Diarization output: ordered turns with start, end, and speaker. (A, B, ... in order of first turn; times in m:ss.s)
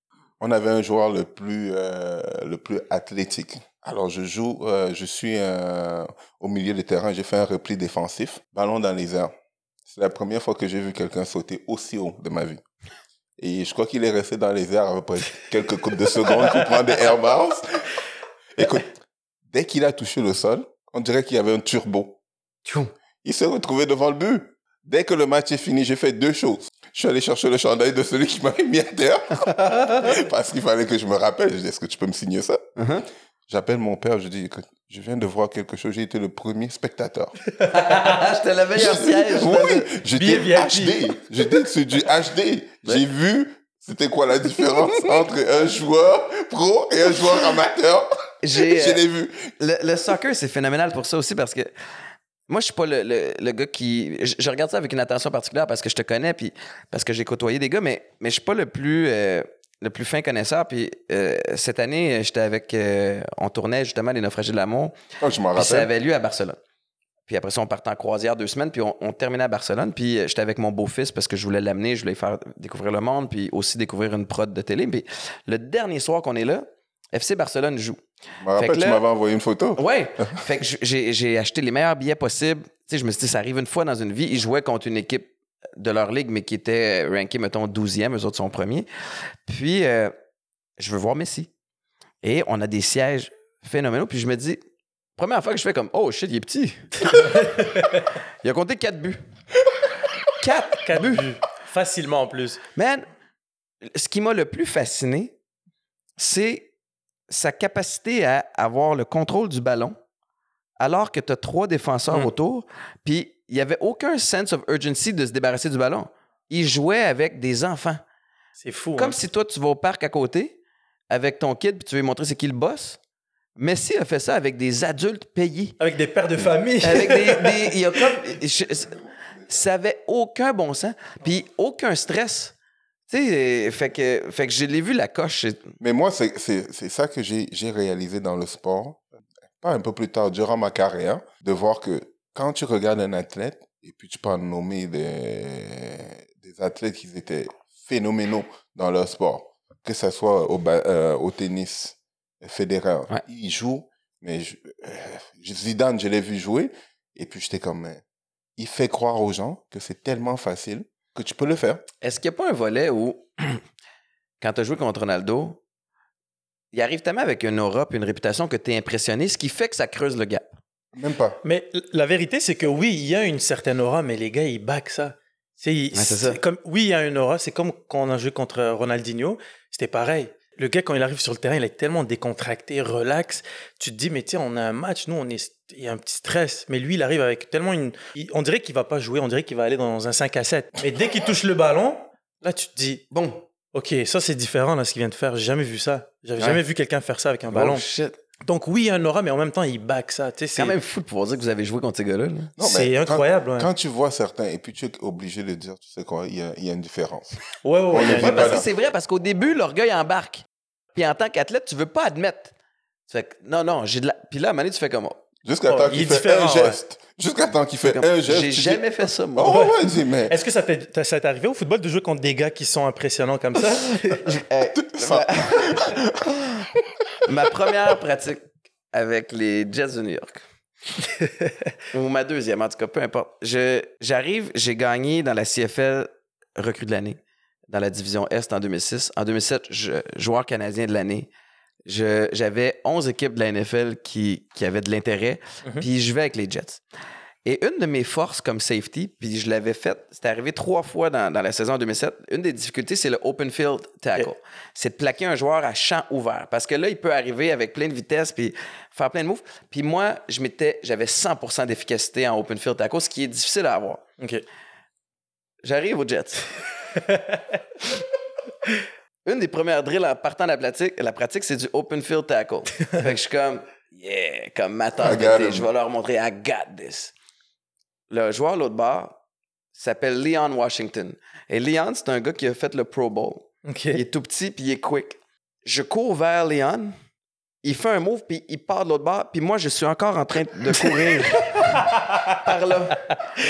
0:00.4-0:09.3 A
0:09.8-0:12.6 A
0:13.4-0:17.9 A
0:18.5-0:18.9 A
0:19.5-0:22.2 A
0:22.6-0:22.9 B
0:23.2-0:32.6 A
0:32.8-0:33.0 B
0:33.5-0:37.3 A
0:37.5-0:38.2 C
0:37.7-0:39.9 B
0:38.7-0:49.5 A
0:40.1-0:41.2 C
0:48.4-0:49.0 B
0:49.6-0:51.7 B
0:52.5-1:05.0 B
1:05.2-1:05.9 A
1:05.5-1:06.6 B
1:07.3-1:18.0 B
1:18.4-1:20.4 A
1:18.6-1:19.0 B
1:19.8-1:28.9 B
1:29.4-1:30.1 B
1:30.8-1:31.5 B
1:32.2-1:34.6 B
1:35.2-1:37.3 B
1:37.2-1:38.0 C
1:38.4-1:39.2 B
1:40.4-1:41.3 B
1:40.8-1:42.6 C
1:42.7-1:43.0 B
1:43.8-1:45.3 B
1:46.2-1:46.7 B
1:47.3-1:50.0 B
1:50.8-1:58.0 B
1:58.6-1:59.2 C
1:59.0-2:00.6 B
2:01.1-2:03.0 B
2:03.6-2:05.8 B
2:05.8-2:07.8 C
2:06.8-2:12.5 B
2:13.1-2:15.7 B
2:15.8-2:19.1 A
2:19.6-2:38.0 A
2:38.6-2:41.8 A
2:42.0-2:43.6 B
2:44.4-2:45.6 B
2:46.7-2:50.6 B
2:50.9-2:51.4 A
2:51.4-3:13.0 C
2:55.9-2:56.4 B
3:13.1-3:13.4 B
3:13.7-3:17.8 C
3:17.5-3:18.2 B
3:18.4-3:20.7 C
3:20.6-3:22.5 B
3:22.6-3:27.4 A
3:22.6-3:23.7 C
3:27.6-3:28.6 C
3:27.9-3:28.6 A
3:28.0-3:32.5 B
3:33.1-3:35.2 B
3:35.4-3:40.4 A
3:35.7-3:36.8 C
3:37.8-3:39.6 B
3:39.4-3:44.3 C
3:44.2-3:45.9 B
3:44.7-3:46.9 A
3:47.2-3:50.4 B
3:51.0-3:51.5 C
3:51.9-3:57.2 B
3:57.7-4:01.3 B
4:01.8-4:06.8 B
4:07.4-4:24.0 B
4:24.2-4:24.4 C
4:25.6-4:26.5 B
4:27.1-4:27.4 C
4:29.2-4:37.1 B
4:35.0-4:35.6 A
4:38.1-4:39.2 B
4:39.7-4:46.9 B
4:43.6-4:44.0 C
4:47.6-4:53.1 B
4:50.8-4:52.4 C